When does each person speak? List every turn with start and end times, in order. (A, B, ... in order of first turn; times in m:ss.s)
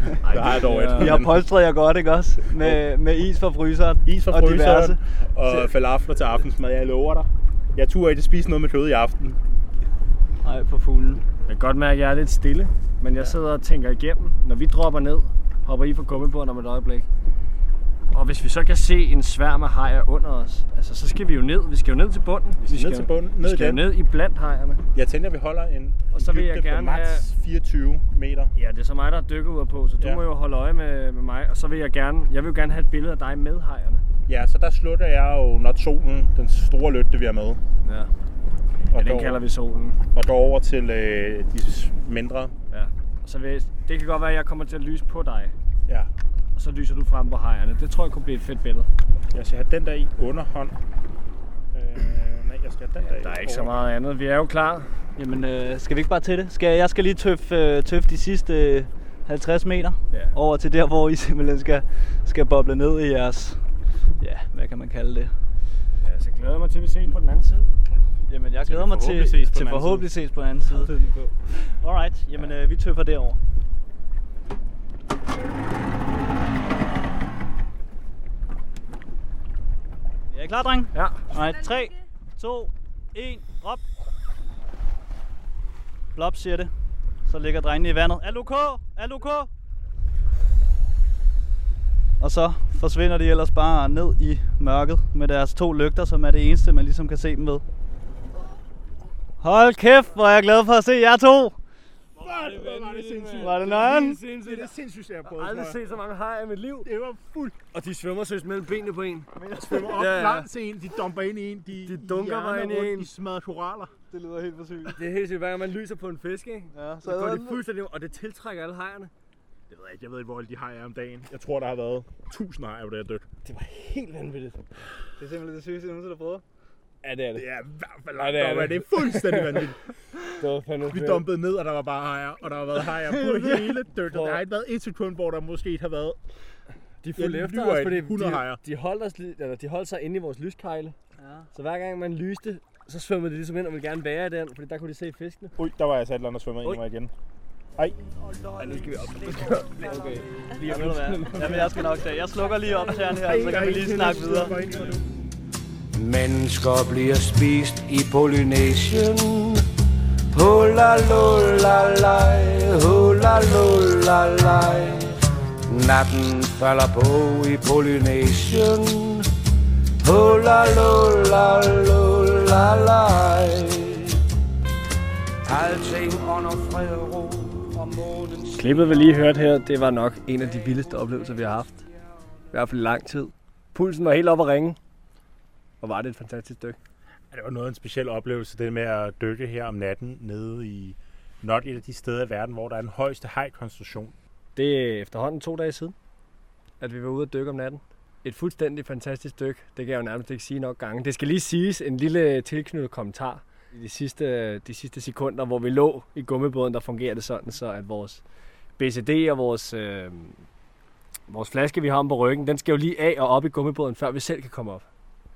0:00.2-0:01.2 A
0:00.2-0:01.4 B
0:00.7-0:05.7 C
0:04.0-0:09.4 B
0:10.4-0:11.2 C
0:11.5-0:17.1 A
0:18.1-0:24.8 A
0:22.6-0:23.9 B
0:24.9-0:28.5 B
0:26.1-0:27.3 A
0:28.5-0:34.0 A
0:34.3-0:37.6 B
0:37.8-0:38.1 A
0:38.9-0:39.4 B
0:38.9-0:40.0 A
0:40.1-0:42.5 B
0:42.7-0:45.5 A
0:46.6-0:48.9 A
0:49.3-0:50.8 B
0:51.7-0:53.9 B
0:53.2-0:55.0 A
0:55.2-1:05.4 C
1:06.0-1:07.7 A
1:08.3-1:10.9 C
1:08.6-1:10.1 B
1:10.8-1:11.3 A
1:11.6-1:13.4 C
1:20.3-1:23.8 C
1:20.9-1:21.3 A
1:26.2-1:26.7 C
1:27.2-1:29.5 C
1:32.2-1:37.6 C
1:39.4-1:41.6 C
1:42.2-1:45.8 B
1:42.2-1:44.7 A
1:43.4-1:44.2 C
1:45.2-1:46.9 A
1:46.8-1:47.6 B
1:47.7-1:49.3 A
1:49.3-1:50.0 C
1:49.6-1:53.9 B
1:49.8-1:50.5 A
1:51.8-1:53.1 A
1:54.1-1:55.0 C
1:54.9-1:59.1 A
1:56.7-1:57.6 C
1:59.7-2:03.3 B
2:03.4-2:04.8 A
2:05.2-2:06.4 C
2:07.0-2:07.4 A
2:07.4-2:16.2 B
2:08.2-2:09.7 A
2:10.4-2:11.2 A
2:13.0-2:13.8 C
2:14.1-2:14.4 A
2:17.0-2:21.0 A
2:17.2-2:18.6 B
2:21.2-2:21.5 C
2:21.5-2:25.6 A
2:25.6-2:27.1 B
2:28.6-2:31.7 A
2:29.8-2:34.6 C
2:33.3-2:35.1 B
2:35.9-2:39.7 D
2:40.3-2:49.3 D
2:50.0-2:54.2 D
2:55.4-2:58.7 D
2:58.5-3:01.8 A
3:02.5-3:04.8 A
3:05.8-3:06.8 A
3:07.3-3:14.1 B
3:14.6-3:16.0 A
3:16.8-3:28.2 A
3:28.8-3:30.4 A
3:31.3-3:34.9 A